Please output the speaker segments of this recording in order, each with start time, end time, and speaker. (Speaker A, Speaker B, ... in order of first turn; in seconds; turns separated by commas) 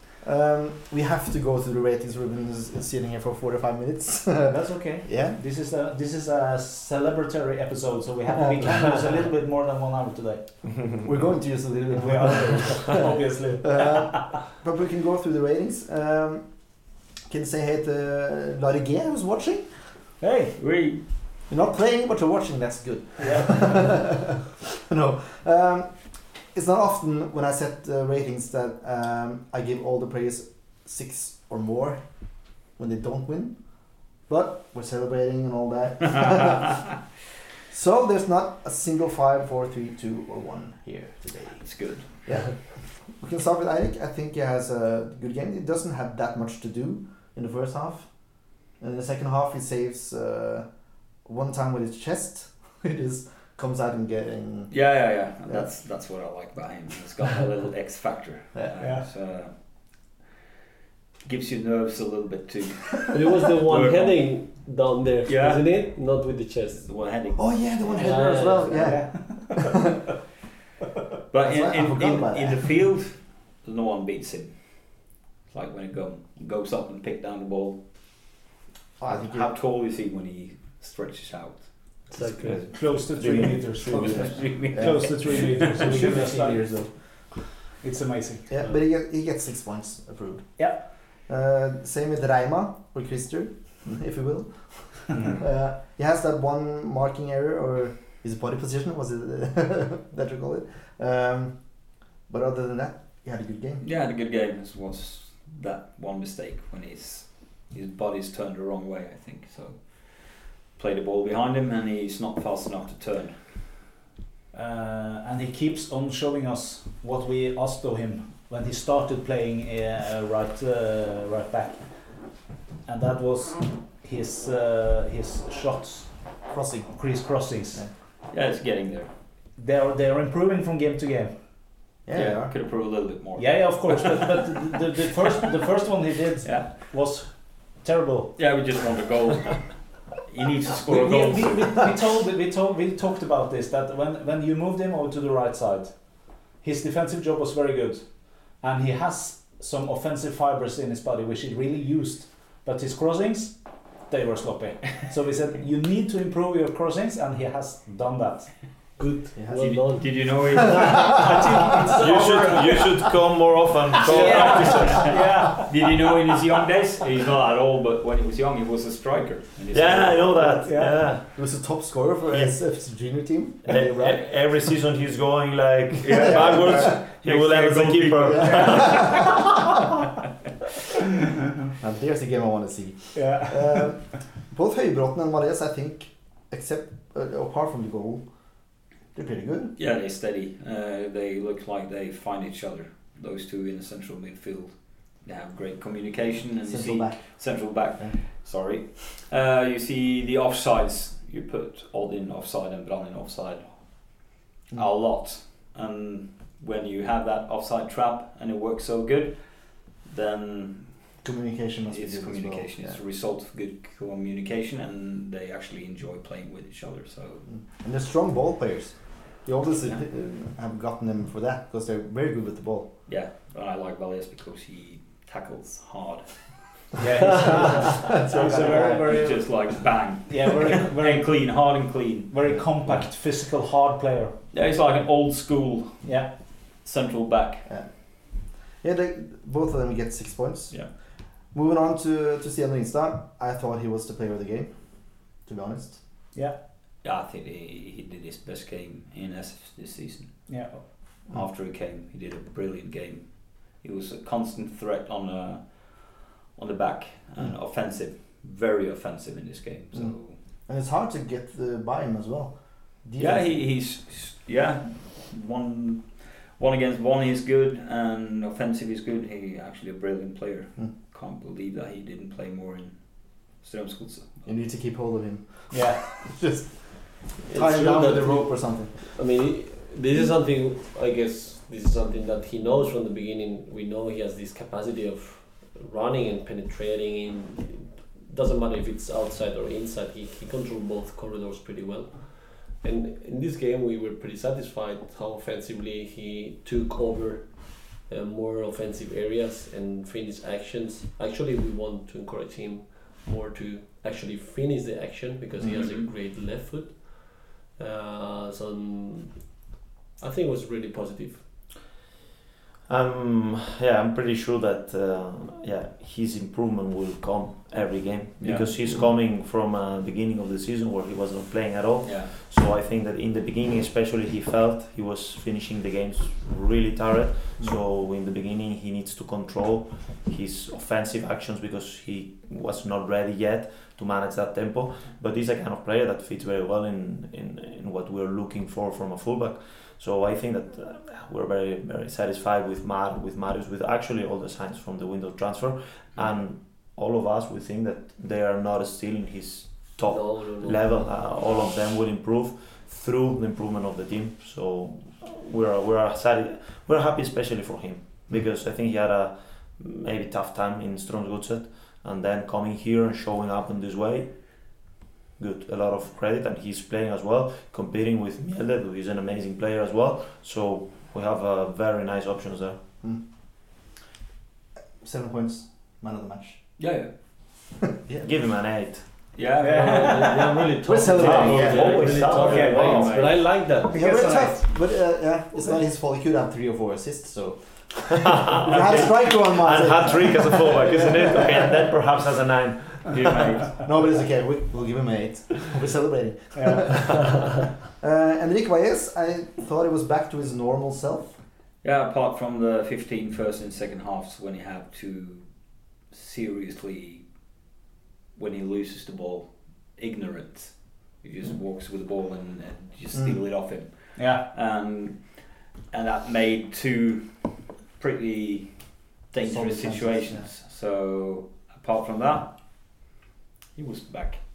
Speaker A: 0.2-5.4, Speaker B: 4.5-14.4, Speaker C: 10.7-11.0, Speaker A: 11.0-12.9, Speaker A: 13.6-20.2, Speaker B: 20.2-20.6, Speaker D: 20.6-21.0, Speaker A: 21.5-36.9, Speaker B: 23.2-23.9, Speaker A: 37.7-55.7, Speaker D: 41.6-42.1, Speaker D: 54.7-60.2, Speaker A: 58.5-58.8, Speaker B: 58.8-59.1, Speaker D: 61.2-64.4, Speaker E: 63.1-69.1, Speaker D: 65.2-66.1, Speaker D: 66.7-68.9, Speaker A: 67.3-69.7, Speaker B: 68.7-69.8, Speaker D: 71.3-78.3, Speaker A: 71.4-72.6, Speaker A: 79.0-79.5, Speaker D: 79.1-82.2, Speaker E: 82.1-82.7, Speaker C: 82.2-84.5, Speaker B: 82.7-88.8, Speaker A: 83.9-87.6, Speaker D: 84.0-86.2, Speaker A: 88.5-103.8, Speaker B: 90.6-90.9, Speaker D: 103.8-113.6, Speaker B: 114.5-128.0, Speaker A: 126.5-127.9, Speaker D: 128.3-129.4, Speaker B: 129.5-132.0, Speaker A: 132.0-132.5, Speaker D: 132.1-134.6, Speaker B: 132.7-138.8, Speaker D: 136.4-136.9, Speaker D: 138.3-141.9, Speaker B: 140.8-158.7, Speaker E: 159.0-160.3, Speaker A: 159.3-161.3, Speaker D: 159.6-162.0, Speaker B: 160.7-163.0, Speaker C: 162.0-165.1, Speaker E: 162.2-162.6, Speaker B: 164.0-165.9, Speaker D: 164.1-170.4, Speaker C: 169.7-173.1, Speaker A: 170.4-174.7, Speaker B: 170.5-171.0, Speaker C: 173.7-179.6, Speaker D: 176.0-179.5, Speaker A: 176.1-176.9, Speaker A: 178.3-179.1, Speaker A: 181.8-189.7, Speaker B: 183.1-184.1, Speaker D: 189.8-211.2, Speaker A: 196.6-198.2, Speaker A: 211.2-213.0, Speaker D: 211.9-217.5, Speaker A: 217.4-223.0, Speaker D: 223.1-233.1, Speaker B: 227.0-234.5, Speaker A: 227.3-229.3, Speaker D: 234.5-237.7, Speaker B: 236.0-236.5, Speaker A: 237.6-246.1, Speaker B: 246.3-246.6, Speaker D: 247.0-260.4, Speaker B: 250.5-251.2, Speaker A: 259.9-263.6, Speaker D: 263.2-274.6, Speaker A: 274.4-279.2, Speaker B: 275.7-276.2, Speaker E: 277.5-311.4, Speaker A: 305.6-305.8, Speaker D: 305.7-306.1, Speaker C: 312.9-372.8, Speaker D: 318.4-318.7, Speaker D: 322.0-322.3, Speaker E: 350.1-351.6, Speaker A: 373.0-373.2, Speaker A: 375.0-378.3, Speaker D: 376.8-377.2, Speaker C: 378.2-379.4, Speaker D: 379.3-380.5, Speaker B: 379.6-380.6, Speaker E: 379.6-384.6, Speaker A: 380.9-382.1, Speaker C: 381.0-383.2, Speaker B: 381.1-383.1, Speaker D: 382.7-383.5, Speaker A: 383.9-391.9, Speaker B: 383.9-384.6, Speaker C: 388.6-393.1, Speaker D: 393.1-393.8, Speaker A: 393.8-401.4, Speaker B: 396.5-397.0, Speaker D: 401.8-407.6, Speaker D: 408.3-422.9, Speaker A: 413.1-413.4, Speaker B: 414.1-414.4, Speaker A: 419.4-420.5, Speaker D: 423.7-424.4